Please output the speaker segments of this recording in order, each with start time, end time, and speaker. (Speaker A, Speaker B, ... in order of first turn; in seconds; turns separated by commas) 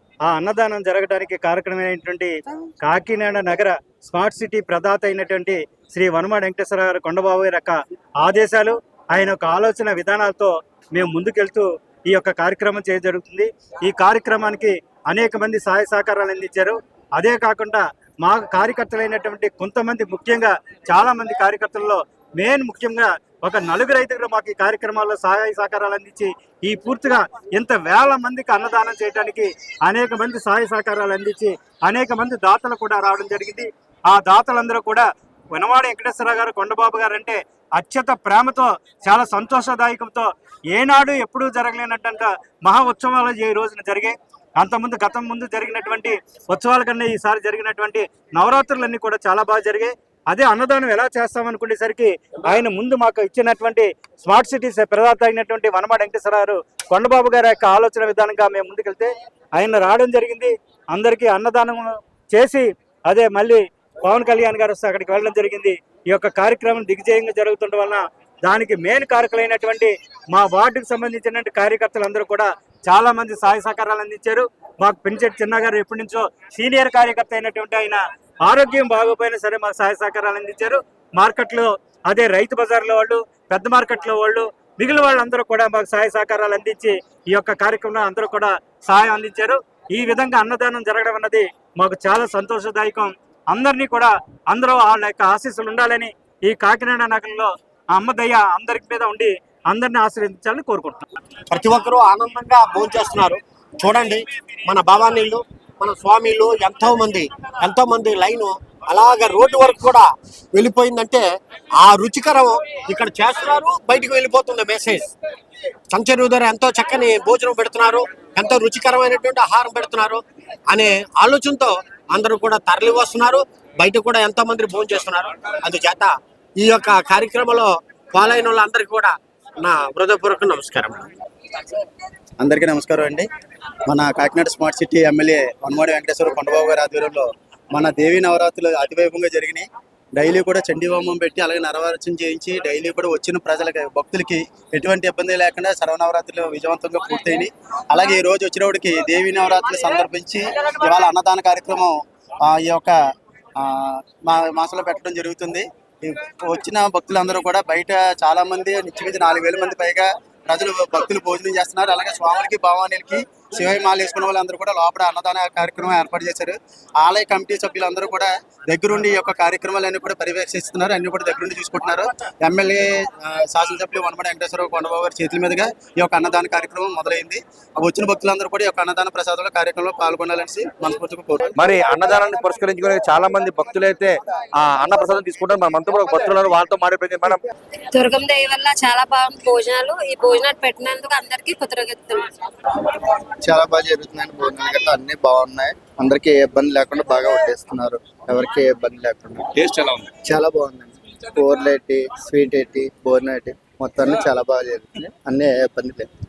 Speaker A: 0.3-101.0, Speaker B: 101.5-111.2, Speaker B: 111.8-115.1, Speaker B: 115.9-131.1, Speaker C: 132.4-133.3, Speaker C: 133.8-152.9, Speaker C: 153.6-181.4, Speaker D: 181.5-187.4, Speaker E: 187.9-192.3, Speaker F: 193.4-199.5, Speaker D: 199.6-200.1, Speaker F: 200.2-206.1